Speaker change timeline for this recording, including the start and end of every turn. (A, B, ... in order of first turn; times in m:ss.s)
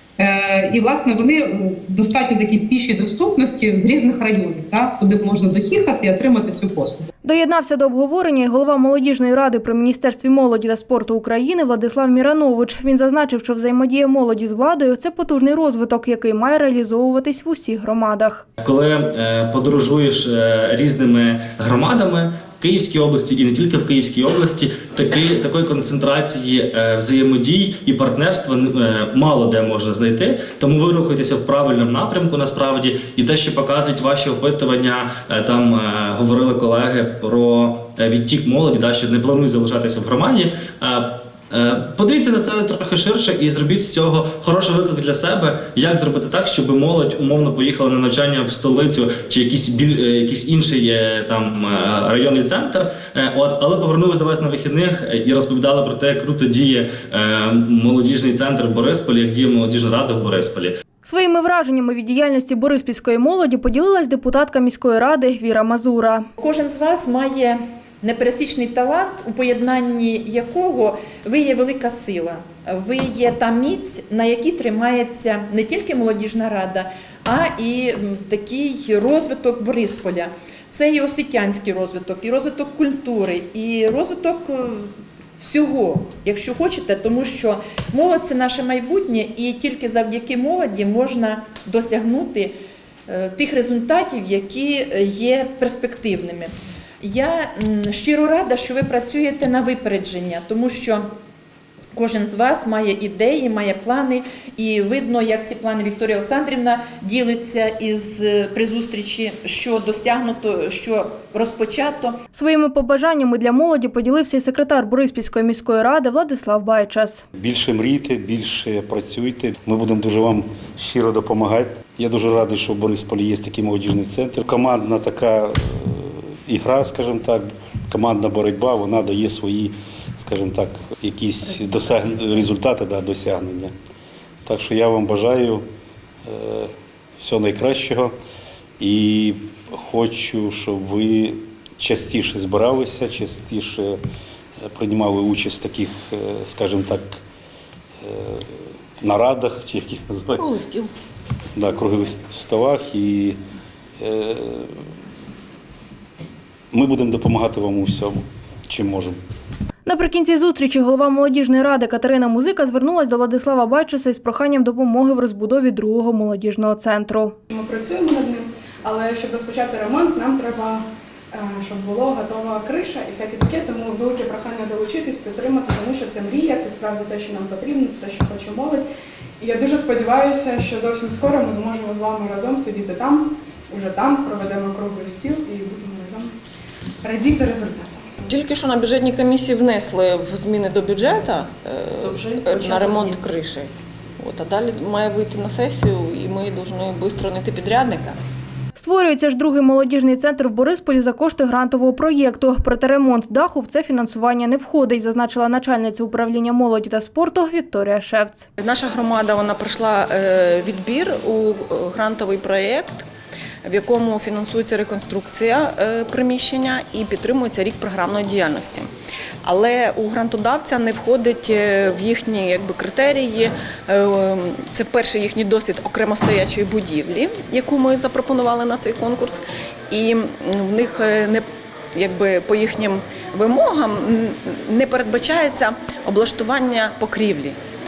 0:00.2-0:07.1 A
0:07.2-0:18.4 B
0:18.6-1:00.7 C
1:01.0-1:06.2 B
1:06.4-1:32.5 D
1:33.1-1:41.1 D
1:41.9-1:52.2 D
1:52.3-1:57.2 B
1:57.3-2:13.7 E
2:14.4-2:15.6 E
2:16.2-2:18.1 E
2:18.8-2:24.0 E
2:24.6-2:27.2 E
2:28.0-2:30.4 E
2:30.4-2:30.9 F
2:31.6-2:33.4 E
2:34.0-2:34.7 E
2:36.7-2:39.2 E
2:39.8-2:47.4 B
2:47.5-2:58.8 G
2:59.4-3:06.3 G
3:07.0-3:08.1 G
3:08.2-3:18.2 F
3:18.8-3:28.5 B
3:28.6-3:33.0 F
3:33.6-3:38.9 F
3:39.4-3:57.6 F